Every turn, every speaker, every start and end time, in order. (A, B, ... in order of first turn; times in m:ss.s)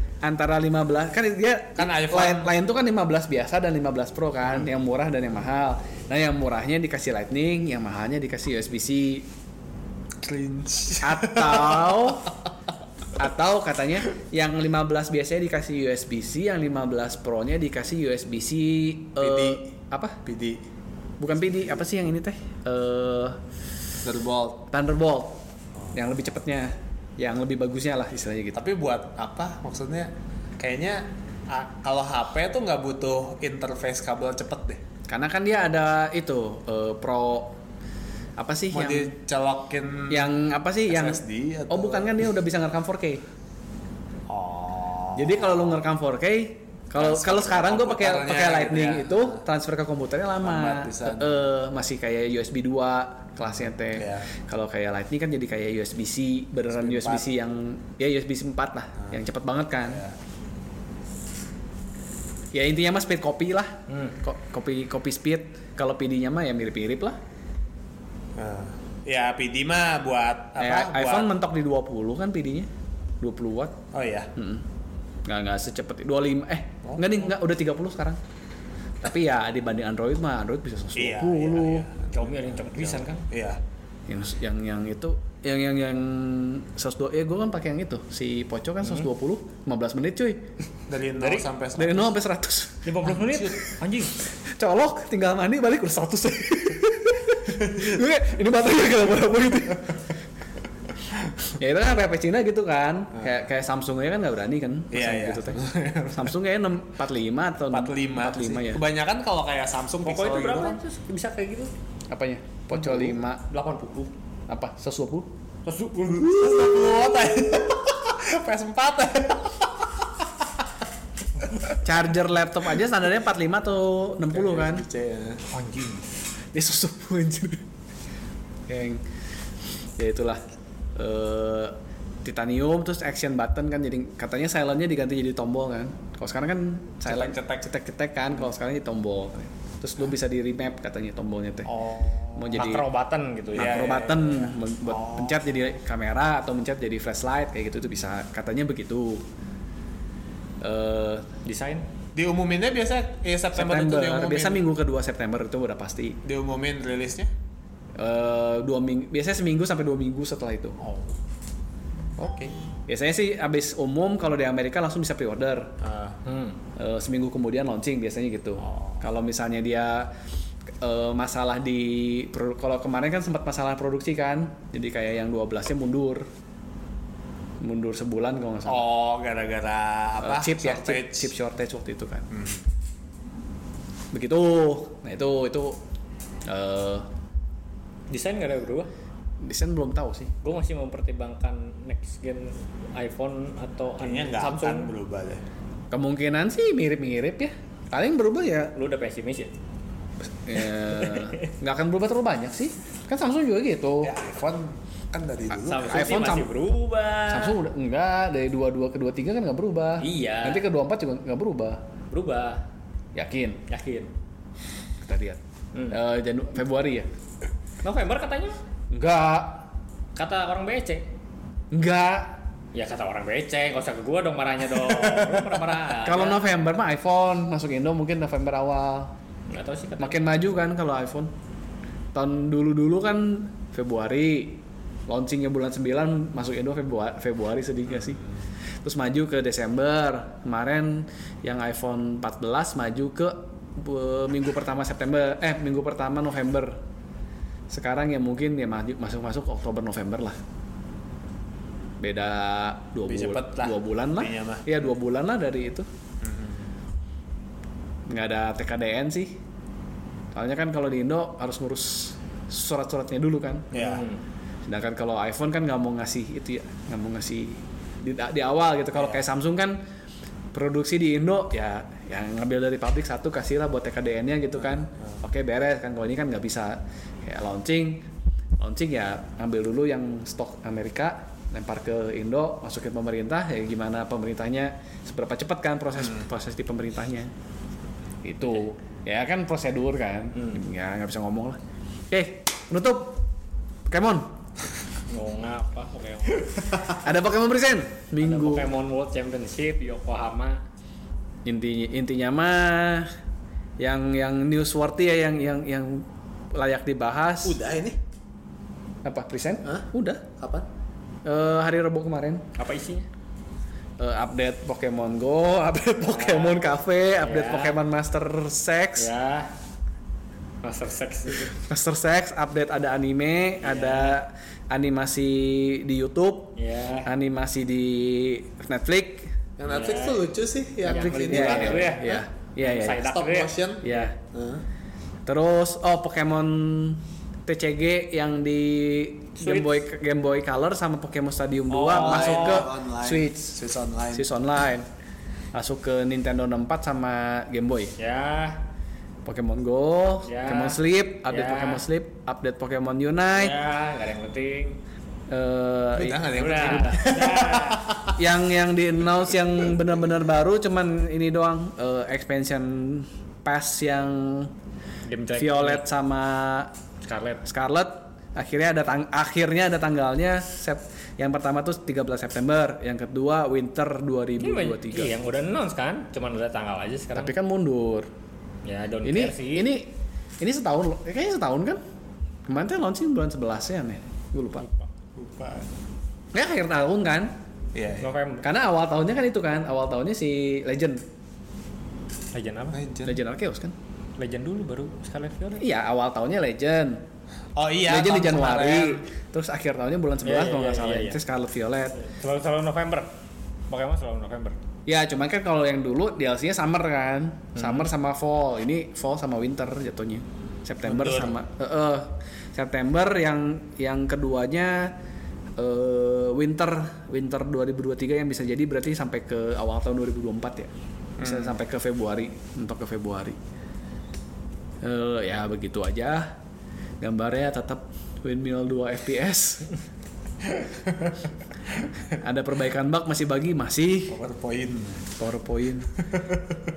0:00.2-0:09.3 A
0:01.8-0:02.5 B
0:10.2-0:12.2 B
0:11.0-0:12.3 A
0:13.2-0:20.2 A
0:19.2-0:19.7 B
0:20.2-0:20.6 B
0:21.2-0:23.4 A
0:24.0-0:24.7 B
0:24.7-0:28.6 A
0:28.6-0:34.8 B
0:35.1-0:37.6 A
0:38.4-0:39.1 A
0:38.7-0:40.3 B
0:40.1-0:43.2 A
0:40.9-0:42.3 B
0:44.3-0:45.8 B
0:45.2-1:00.0 A
0:47.0-0:49.4 B
0:50.4-0:51.5 B
0:53.8-0:54.3 B
0:56.7-0:57.3 B
0:59.9-1:00.2 B
1:02.5-1:07.2 A
1:08.4-1:11.3 B
1:10.6-1:12.7 A
1:13.2-1:13.8 A
1:13.9-1:14.3 B
1:14.4-1:14.6 A
1:15.2-1:18.2 A
1:16.8-1:17.1 B
1:19.0-1:21.9 A
1:21.0-1:23.6 B
1:22.1-1:23.3 C
1:24.1-1:30.5 A
1:30.9-1:32.1 B
1:31.2-1:31.5 C
1:31.8-1:33.1 A
1:32.8-1:34.2 C
1:33.2-1:33.5 B
1:34.4-1:40.0 A
1:41.6-1:48.8 A
1:44.9-1:46.4 B
1:47.7-1:50.8 B
1:50.0-1:51.7 C
1:52.1-1:53.4 A
1:52.8-1:53.1 B
1:53.5-1:54.1 C
1:54.5-1:55.3 A
1:55.7-1:57.0 C
1:56.1-2:00.3 B
2:01.8-2:04.9 A
2:04.3-2:05.4 B
2:05.5-2:06.0 C
2:06.5-2:07.6 A
2:08.7-2:09.0 A
2:10.0-2:10.4 A
2:11.0-2:21.7 A
2:17.1-2:17.6 B
2:21.7-2:22.7 B
2:22.4-2:22.8 A
2:22.6-2:23.9 C
2:23.5-2:29.3 A
2:23.6-2:25.4 B
2:30.6-2:31.3 A
2:31.4-2:31.9 C
2:32.2-2:34.6 B
2:33.5-2:36.2 A
2:36.2-2:37.3 B
2:38.0-2:40.8 A
2:40.8-2:41.1 B
2:42.2-2:42.6 B
2:42.9-2:45.8 A
2:45.8-2:46.2 B
2:46.3-2:46.6 C
2:46.8-2:50.1 A
2:48.6-2:49.0 B
2:50.8-2:56.3 A
2:57.6-2:58.9 A
2:58.7-3:01.3 B
3:00.2-3:02.3 A
3:02.3-3:02.6 B
3:04.1-3:05.8 A
3:06.5-3:07.1 A
3:08.1-3:08.9 C
3:09.4-3:10.3 A
3:10.4-3:14.9 C
3:14.0-3:15.4 B
3:15.9-3:18.7 A
3:18.8-3:19.5 C
3:20.2-3:24.2 A
3:20.9-3:21.5 C
3:24.0-3:26.1 B
3:25.6-3:27.6 C
3:25.8-3:26.5 A
3:27.3-3:31.8 A
3:30.0-3:30.6 C
3:32.1-3:32.6 C
3:33.2-3:33.6 A
3:33.7-3:34.1 C
3:35.0-3:37.1 A
3:35.7-3:36.0 C
3:37.8-3:38.6 C
3:38.9-3:39.7 A
3:40.2-3:41.1 C
3:41.7-3:42.4 A
3:42.7-3:46.4 C
3:45.9-3:49.1 A
3:49.5-3:50.3 C
3:50.0-3:51.3 A
3:52.1-3:58.2 A
3:58.0-3:58.2 B
3:58.8-4:06.8 A
4:07.7-4:10.4 A
4:12.0-4:15.9 A
4:13.1-4:14.7 B
4:16.2-4:16.7 B
4:18.1-4:19.4 A
4:20.3-4:23.7 A
4:23.7-4:24.1 B
4:23.7-4:24.2 C
4:24.6-4:29.8 A
4:30.5-4:38.1 A
4:38.6-4:47.3 A
4:48.2-4:51.6 A
4:52.1-4:53.3 A
4:53.9-4:54.4 A
4:55.1-4:56.8 C
4:56.8-4:58.7 A
4:58.2-5:00.6 C
5:01.4-5:03.1 A
5:03.8-5:07.6 A
5:07.4-5:08.0 B
5:09.0-5:10.3 A
5:10.4-5:10.7 B
5:11.2-5:12.4 A
5:12.6-5:13.1 C
5:14.0-5:19.1 A
5:16.0-5:17.8 C
5:19.0-5:19.5 C
5:20.6-5:21.6 C
5:21.5-5:29.4 A
5:23.6-5:24.2 C
5:26.6-5:27.1 C
5:29.6-5:32.2 B
5:29.7-5:30.3 C
5:30.8-5:34.1 C
5:30.9-5:33.1 A
5:32.9-5:34.6 B
5:33.8-5:34.2 A
5:35.3-5:43.6 A
5:39.4-5:39.8 C
5:41.7-5:42.7 C
5:41.9-5:44.3 B
5:44.1-5:44.9 A
5:45.5-5:47.9 A
5:48.0-5:48.6 C
5:49.2-5:53.6 A
5:50.2-5:51.8 C
5:53.3-5:54.8 C
5:55.3-5:56.7 A
5:56.0-5:58.2 B
5:56.4-5:57.9 C
5:58.2-6:04.5 A
6:05.1-6:05.9 C
6:05.4-6:06.7 A
6:07.1-6:07.4 C
6:07.4-6:15.2 A
6:14.4-6:17.4 C
6:17.2-6:18.1 A
6:18.6-6:19.7 C
6:19.0-6:21.8 A
6:22.5-6:24.7 A
6:24.6-6:24.9 C
6:25.2-6:25.7 B
6:26.3-6:27.4 A
6:27.7-6:28.1 B
6:28.0-6:28.5 C
6:28.4-6:31.0 A
6:32.3-6:32.8 C
6:32.7-6:33.2 B
6:33.0-6:33.8 A
6:34.2-6:35.7 C
6:35.6-6:37.0 A
6:37.6-6:39.0 B
6:37.9-6:42.0 A
6:40.2-6:41.2 C
6:42.0-6:43.1 C
6:43.7-6:44.6 C
6:44.9-6:55.0 A
6:47.6-6:47.9 C
6:50.8-6:51.4 B
6:55.6-7:03.4 A
7:01.2-7:01.6 B
7:04.8-7:06.4 A
7:07.0-7:09.7 A
7:10.5-7:11.9 B
7:12.2-7:14.2 A
7:14.1-7:15.1 B
7:15.2-7:15.9 A
7:16.0-7:16.6 B